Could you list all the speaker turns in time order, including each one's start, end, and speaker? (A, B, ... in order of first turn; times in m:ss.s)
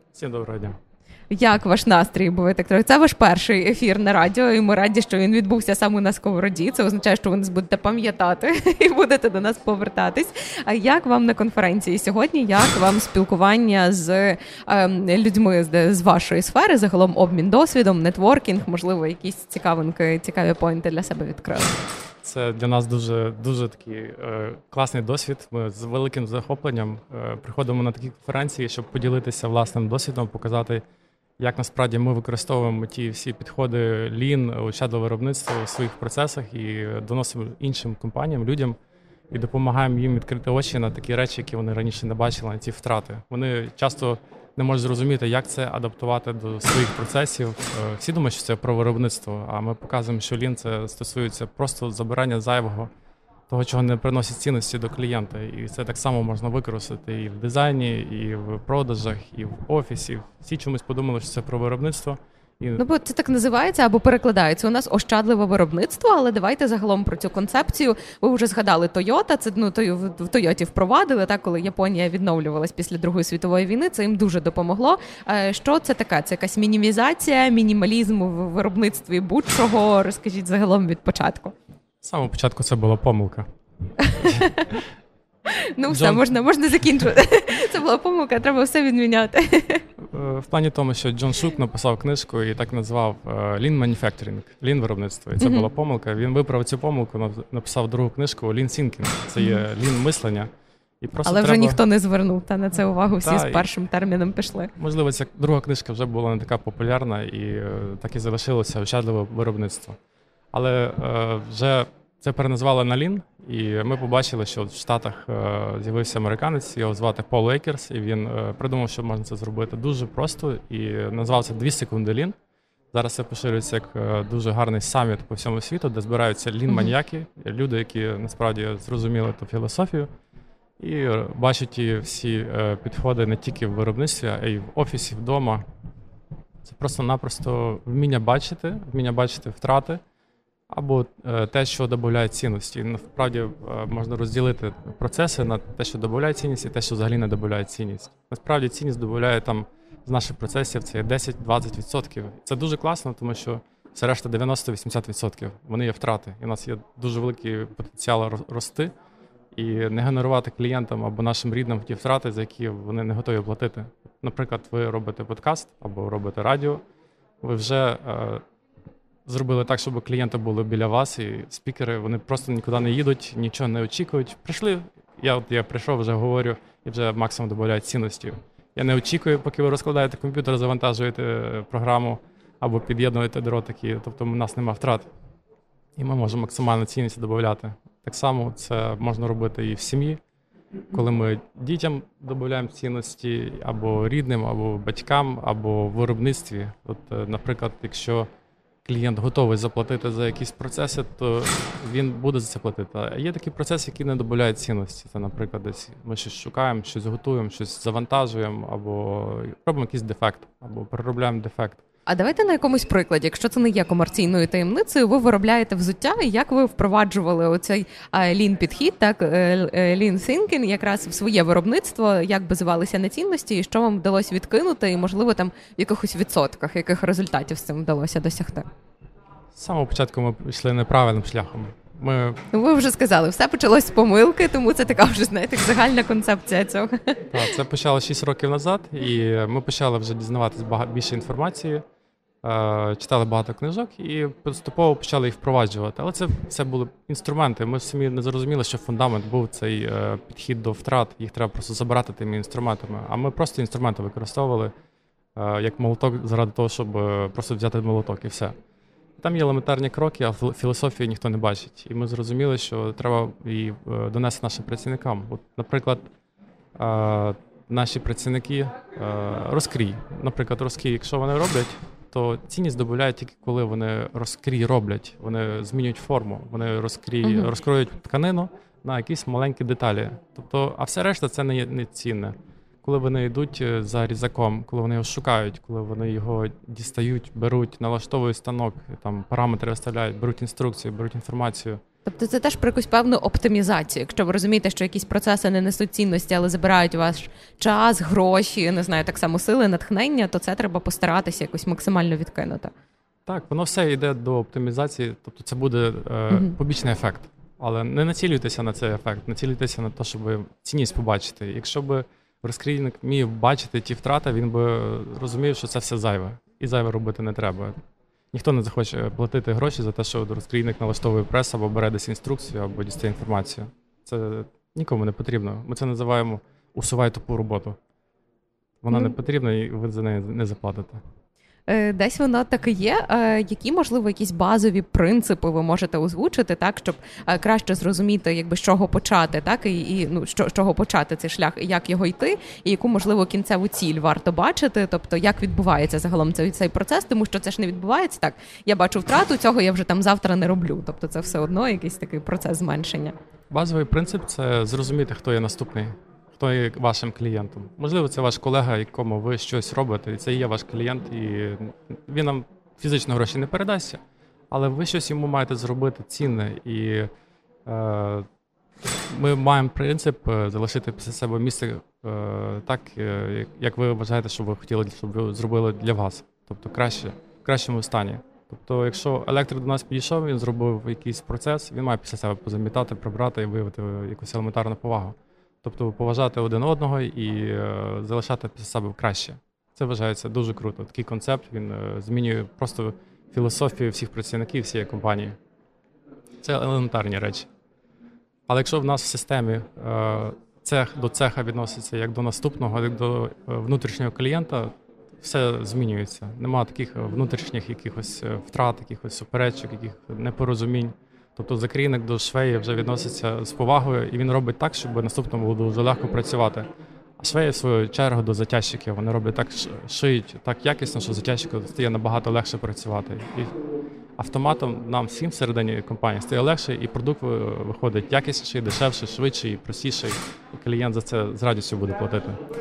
0:00.1-0:00.8 A
0:01.3-0:21.8 B
0:22.2-0:30.8 A
0:31.4-0:38.8 A
0:39.3-0:52.9 A
0:53.5-1:02.8 A
1:02.8-1:21.5 B
1:22.0-1:23.5 A
1:24.0-1:24.8 B
1:24.2-1:24.4 A
1:25.5-1:29.8 B
1:25.9-1:26.2 A
1:30.0-1:40.5 A
1:35.4-1:35.7 B
1:41.0-1:41.8 A
1:41.2-1:44.7 B
1:43.2-1:43.7 A
1:44.8-1:50.0 A
1:50.5-2:02.3 A
2:02.9-2:10.1 A
2:10.8-2:15.6 A
2:16.6-2:20.0 A
2:20.7-2:38.9 A
2:39.6-2:46.8 A
2:47.4-2:48.4 A
2:49.3-3:05.1 A
3:06.0-3:10.2 A
3:10.9-3:18.3 A
3:18.8-3:31.8 A
3:32.1-3:48.7 B
3:49.5-3:52.4 A
3:52.5-3:57.4 B
3:57.3-4:01.8 A
4:02.4-4:14.7 A
4:15.4-4:18.5 A
4:19.2-4:26.1 A
4:26.8-4:51.8 A
4:37.2-4:37.5 B
4:52.1-5:02.7 B
5:03.3-5:17.8 A
5:18.3-5:27.8 A
5:28.8-5:31.0 A
5:31.7-5:53.2 B
5:53.5-6:04.0 A
6:04.5-6:07.1 A
6:07.7-6:08.3 A
6:09.1-6:35.3 A
6:36.4-6:37.5 A
6:38.5-6:44.7 A
6:45.2-6:56.7 A
6:57.2-7:03.5 A
7:04.2-7:12.4 A